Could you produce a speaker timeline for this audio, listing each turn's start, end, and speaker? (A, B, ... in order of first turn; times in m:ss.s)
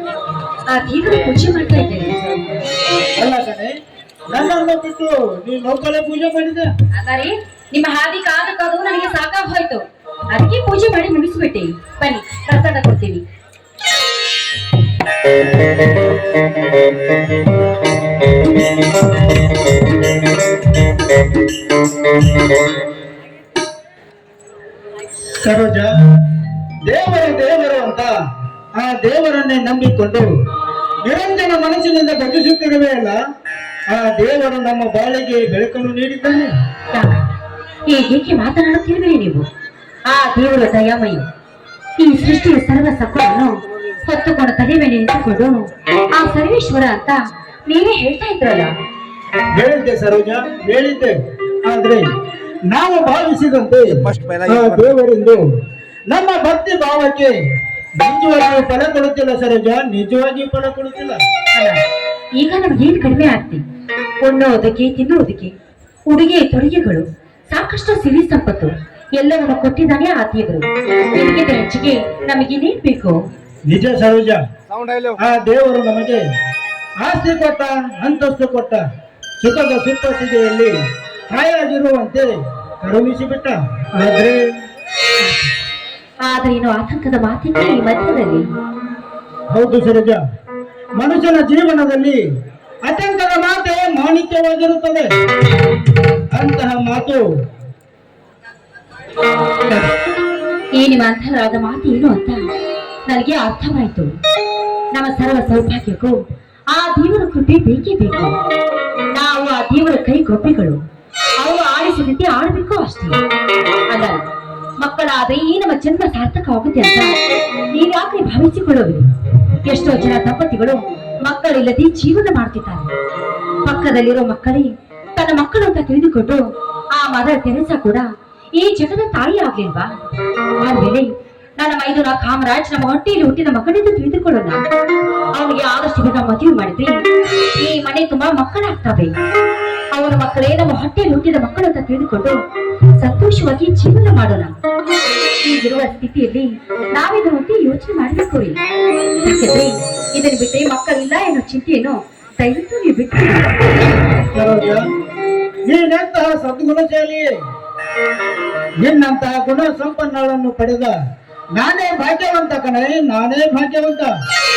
0:00.7-0:02.2 A
0:03.2-0:03.7 B
0:04.3-0:06.7 B
0:06.9-0:13.2 A
0:25.2-0:25.9 B
0:26.8-0:28.1 B
0:28.8-0:30.3 B
0:31.0-0:33.2 B
0:33.9-0:36.5 B
0:36.9-0:37.3 A
0:37.9-0:39.5 A
0:40.1-0:41.3 A
0:42.0-0:48.7 A
0:49.6-0:52.1 B
0:52.7-0:55.4 B
0:56.1-0:57.3 B
0:58.0-1:01.2 B
1:01.5-1:01.8 A
1:02.4-1:03.6 A
1:04.2-1:05.5 A
1:06.1-1:13.2 A
1:13.7-1:14.4 B
1:15.2-1:16.2 B
1:17.0-1:18.8 B
1:19.4-1:20.7 B
1:21.3-1:24.4 B
1:25.2-1:25.5 A
1:26.2-1:28.5 A
1:29.5-1:30.2 B
1:31.0-1:32.2 B
1:32.8-1:35.1 B
1:36.3-1:37.2 B
1:39.7-1:39.9 A
1:40.7-1:42.5 A
1:43.1-1:44.1 A
1:44.9-1:46.2 A
1:46.7-1:48.4 A
1:49.1-1:50.8 A
1:51.4-1:53.2 A
1:53.9-1:54.2 A
1:54.8-1:57.1 A
1:57.7-1:59.1 A
1:59.6-2:02.9 A
2:03.6-2:09.9 A
2:10.6-2:14.6 A
2:15.3-2:17.0 A
2:17.6-2:19.1 A
2:19.9-2:22.4 A
2:23.0-2:24.5 A
2:25.4-2:28.6 A
2:29.2-2:33.6 A
2:34.3-2:34.8 B
2:35.7-2:37.4 B
2:38.8-2:41.0 B
2:41.6-2:44.1 B